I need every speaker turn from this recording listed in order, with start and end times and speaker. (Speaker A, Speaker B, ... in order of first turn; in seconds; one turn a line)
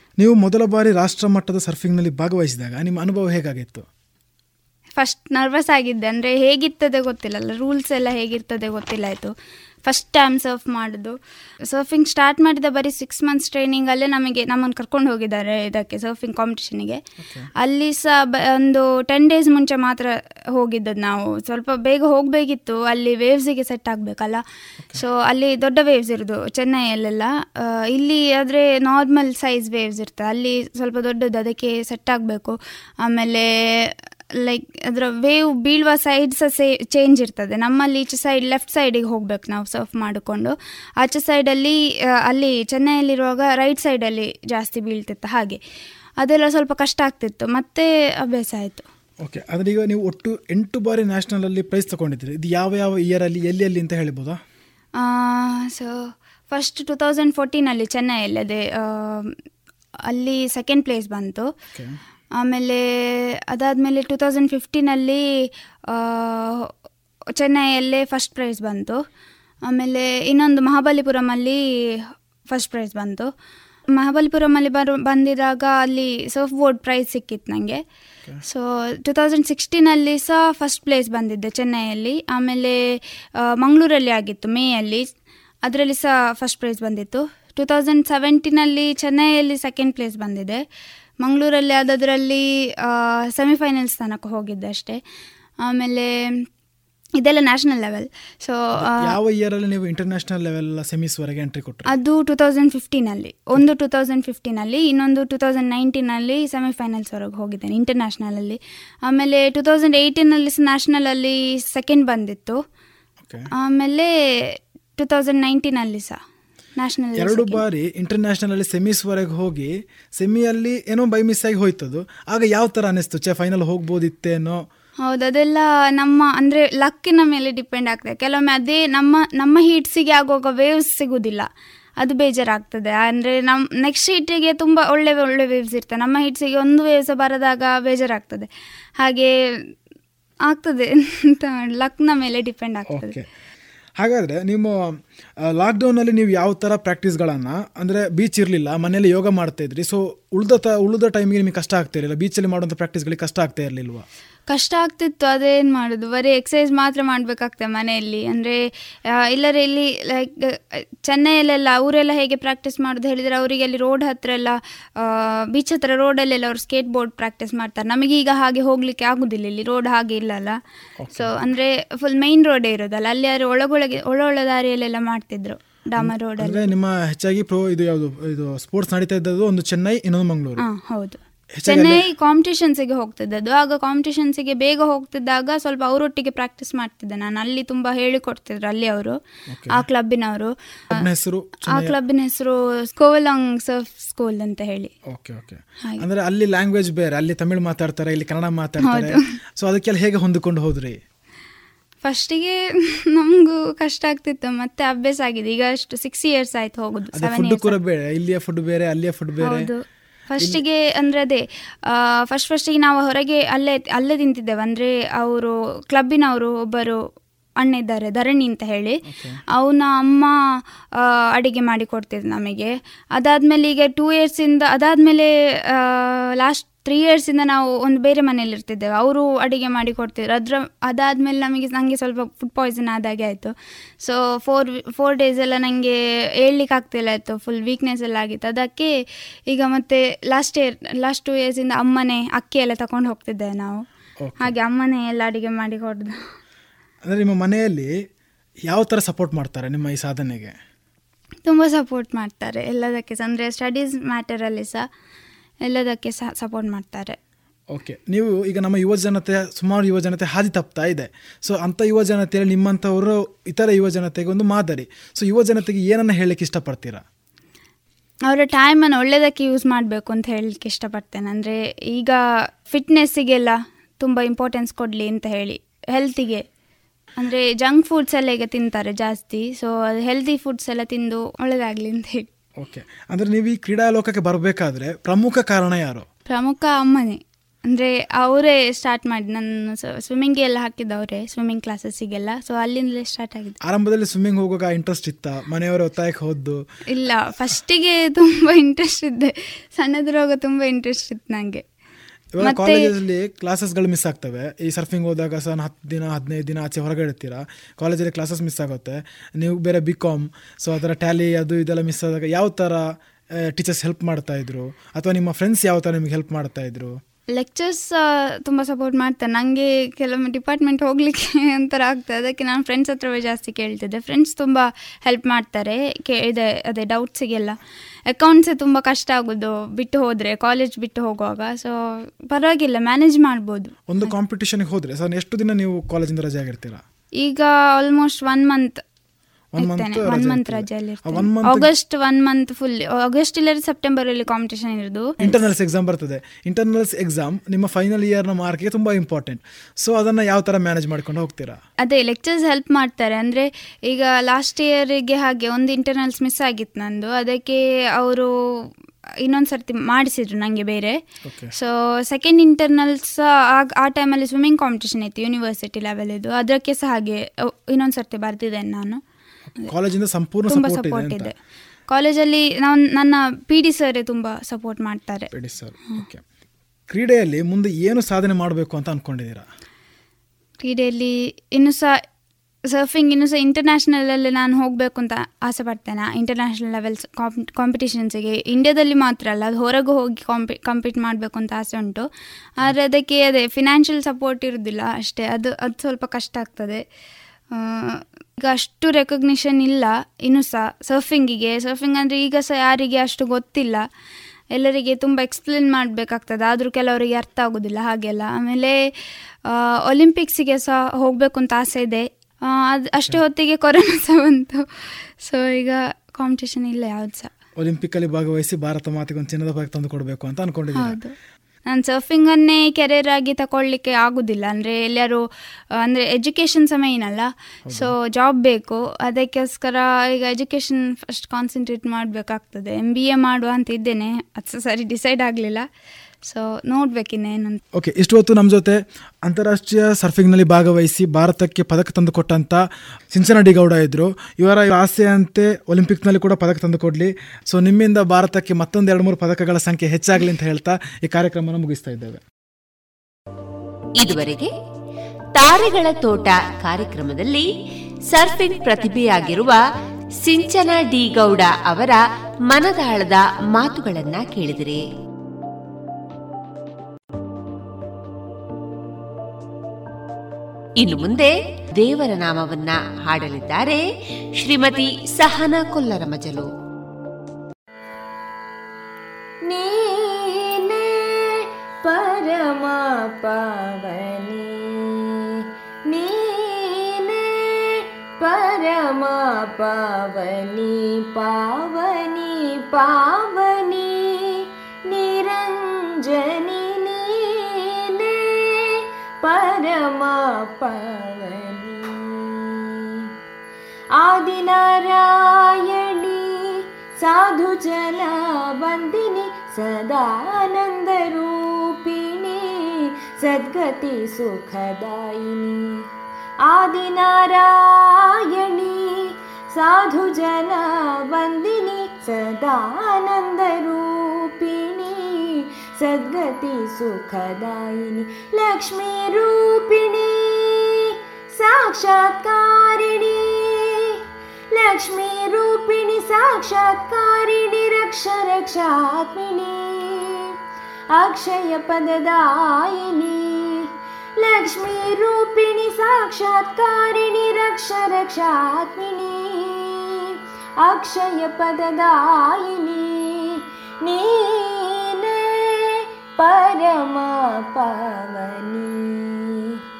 Speaker A: 0.2-3.9
Speaker B: 5.0-9.3
Speaker B: 9.9-11.1
Speaker B: 11.7-17.0
Speaker A: 17.2-17.5
Speaker B: 17.6-24.4
Speaker B: 24.9-41.8
Speaker B: 42.3-45.6
Speaker B: 46.2-48.8
Speaker A: 49.2-54.4
Speaker B: 55.0-59.3
Speaker B: 60.0-61.5
Speaker B: 62.4-65.2
Speaker B: 65.9-66.7
Speaker B: 67.4-69.0
Speaker B: 69.7-73.3
Speaker B: 73.9-77.8
Speaker B: 78.5-82.8
Speaker B: 83.4-85.1
Speaker B: 85.6-90.6
Speaker B: 91.2-95.0
Speaker B: 95.6-96.1
Speaker B: 97.2-98.9
Speaker A: 98.9-101.9
Speaker B: 101.9-112.6
Speaker A: 113.2-113.5
Speaker B: 113.6-114.1
Speaker B: 115.0-116.2
Speaker B: 116.8-117.6
Speaker A: 117.2-124.7
Speaker B: 125.1-131.5
Speaker B: 132.0-138.5
Speaker B: 139.0-139.3
Speaker B: 140.5-143.1
Speaker A: 142.9-143.2
Speaker A: 144.0-145.0
Speaker A: 145.6-154.1
Speaker B: 154.5-158.6
Speaker B: 159.2-170.6
Speaker A: 171.0-171.3
Speaker B: 171.1-176.7
Speaker A: 176.0-180.6
Speaker B: 180.6-189.2
Speaker A: 181.6-182.0
Speaker A: 189.5-189.8
Speaker B: 189.7-190.5
Speaker A: 190.9-191.9
Speaker B: 191.7-194.9
Speaker A: 195.1-201.0
Speaker B: 198.9-199.2
Speaker B: 202.0-202.6
Speaker B: 203.1-207.7
Speaker A: 207.1-209.7
Speaker B: 209.4-209.8
Speaker B: 210.4-217.0
Speaker B: 217.6-219.0
Speaker A: 219.1-219.4
Speaker B: 219.6-220.3
Speaker B: 220.9-238.9
Speaker B: 239.5-243.8
Speaker A: 244.2-244.6
Speaker B: 244.4-246.2
Speaker A: 247.1-247.9
Speaker A: 248.7-250.6
Speaker B: 251.4-254.9
Speaker B: 255.7-257.2
Speaker A: 257.7-267.0
Speaker B: 268.3-272.2
Speaker B: 272.7-276.4
Speaker B: 277.2-282.3
Speaker A: 282.6-286.1
Speaker B: 286.3-293.6
Speaker A: 293.6-296.6
Speaker B: 296.9-301.6
Speaker A: 302.4-312.8
Speaker B: 302.4-302.9
Speaker A: 313.6-317.0
Speaker B: 317.3-327.6
Speaker B: 328.1-333.7
Speaker A: 333.9-336.8
Speaker B: 337.2-338.8
Speaker A: 339.6-341.7
Speaker B: 339.6-345.4
Speaker A: 345.2-351.6
Speaker B: 351.8-358.7
Speaker B: 359.2-361.0
Speaker A: 361.3-361.5
Speaker B: 361.6-369.0
Speaker A: 369.5-371.3
Speaker B: 370.5-371.3
Speaker B: 371.9-375.3
Speaker A: 375.3-376.2
Speaker A: 376.9-379.4
Speaker B: 380.6-381.9
Speaker B: 382.7-392.1
Speaker B: 392.6-396.8
Speaker B: 397.5-403.8
Speaker B: 404.5-408.8
Speaker B: 409.5-414.6
Speaker B: 415.2-417.3
Speaker A: 417.6-421.0
Speaker B: 420.8-421.1
Speaker B: 421.7-425.2
Speaker B: 425.8-435.6
Speaker A: 427.7-427.9
Speaker B: 436.2-437.6
Speaker A: 437.8-442.6
Speaker A: 443.1-452.2
Speaker C: 454.0-454.5
Speaker C: 455.4-457.5
Speaker C: 458.1-459.6
Speaker C: 460.2-462.0
Speaker C: 462.5-464.8
Speaker C: 470.8-473.8
Speaker C: 474.4-476.5
Speaker D: 479.5-503.1
Speaker D: 504.0-515.8
Speaker D: 516.5-534.0
Speaker D: 534.5-540.3
Speaker D: 540.9-543.6
Speaker D: 544.2-559.6